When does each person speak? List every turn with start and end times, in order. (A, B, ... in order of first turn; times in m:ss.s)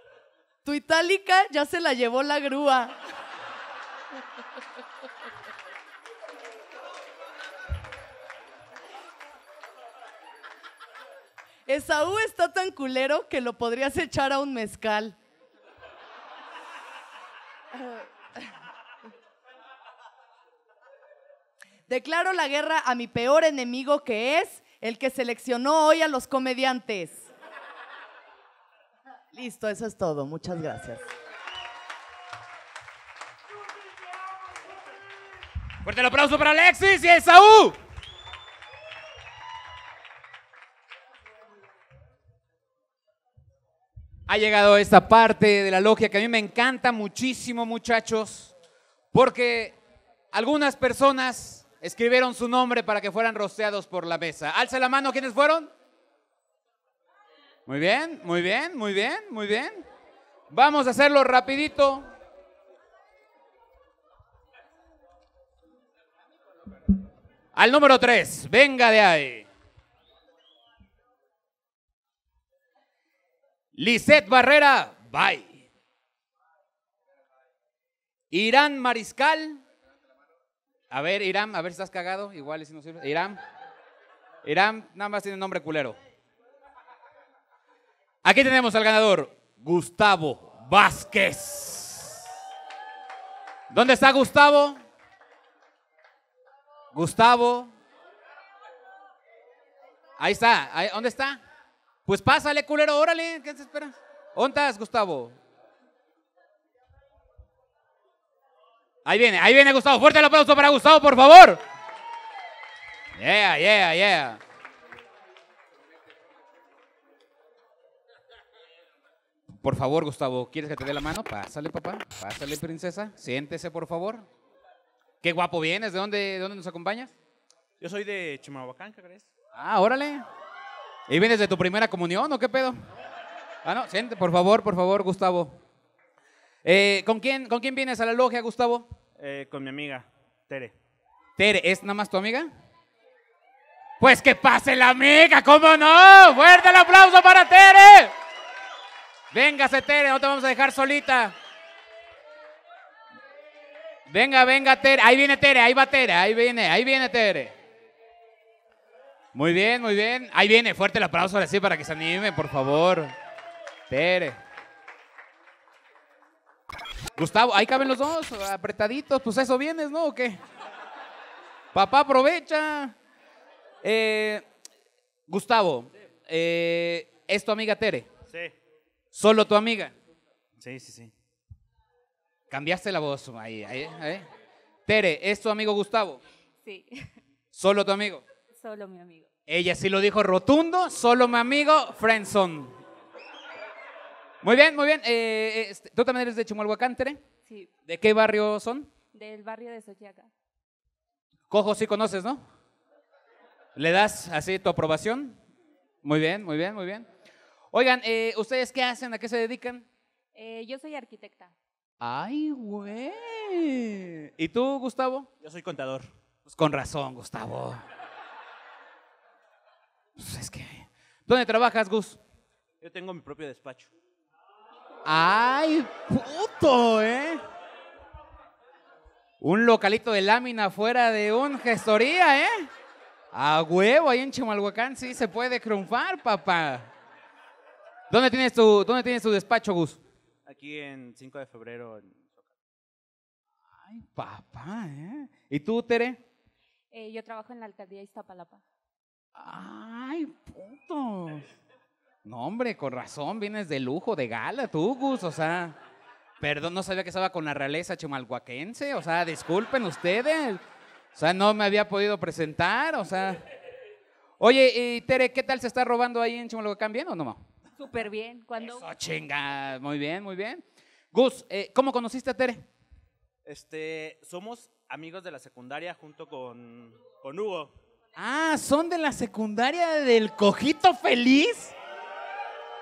0:00.6-0:03.0 A
0:11.7-0:15.2 A
0:21.9-0:27.3 A
0:29.3-0:31.1 A
0:35.8-0:37.8 B
0:44.3-0:48.5 B
0:49.1-0:49.8 B
0:50.3-0:55.7 B
0:57.7-0:59.8 B
1:00.5-1:02.1 B
1:07.5-1:09.5 B
1:13.8-1:15.6 B
1:18.3-1:19.6 B
1:20.9-1:23.4 B
1:24.4-1:26.0 B
1:28.2-1:32.2 B
1:33.7-1:34.8 B
1:36.9-1:37.7 B
1:40.2-1:41.4 B
1:42.0-1:45.4 B
1:49.0-1:51.6 B
1:53.2-1:54.4 B
1:59.6-2:04.3 B
2:05.2-2:07.1 B
2:07.8-2:09.3 C
2:09.5-2:10.2 B
2:11.1-2:12.8 B
2:13.6-2:15.6 B
2:16.6-2:18.9 B
2:19.2-2:20.7 C
2:21.4-2:22.5 B
2:24.0-2:28.1 B
2:29.3-2:31.3 B
2:34.1-2:37.5 B
2:39.3-2:43.1 B
2:43.9-2:44.4 B
2:47.2-2:50.4 B
2:51.7-2:52.9 B
2:53.8-2:54.4 B
2:55.3-2:58.1 B
2:59.1-2:59.9 B
3:00.6-3:01.1 C
3:02.5-3:04.2 B
3:04.8-3:06.2 B
3:06.6-3:07.1 D
3:07.5-3:08.2 B
3:08.5-3:09.3 D
3:09.5-3:12.8 B
3:14.4-3:17.2 B
3:17.4-3:17.7 D
3:17.8-3:18.9 B
3:19.1-3:20.3 D
3:21.5-3:22.4 B
3:23.8-3:25.4 B
3:26.0-3:27.1 B
3:27.7-3:29.8 B
3:30.3-3:31.5 D
3:32.0-3:35.3 B
3:35.4-3:36.1 C
3:36.5-3:37.8 B
3:40.2-3:42.2 B
3:42.8-3:43.9 C
3:45.0-3:47.4 B
3:49.4-3:52.7 B
3:53.3-3:56.9 B
3:58.1-4:00.0 B
4:00.4-4:02.5 C
4:03.8-4:06.2 B
4:06.9-4:08.6 D
4:09.4-4:11.4 B
4:12.2-4:15.8 B
4:16.4-4:20.6 B
4:21.1-4:23.4 B
4:24.4-4:27.4 B
4:27.8-4:28.9 D
4:28.6-4:32.6 B
4:33.4-4:37.7 C
4:38.2-4:41.7 B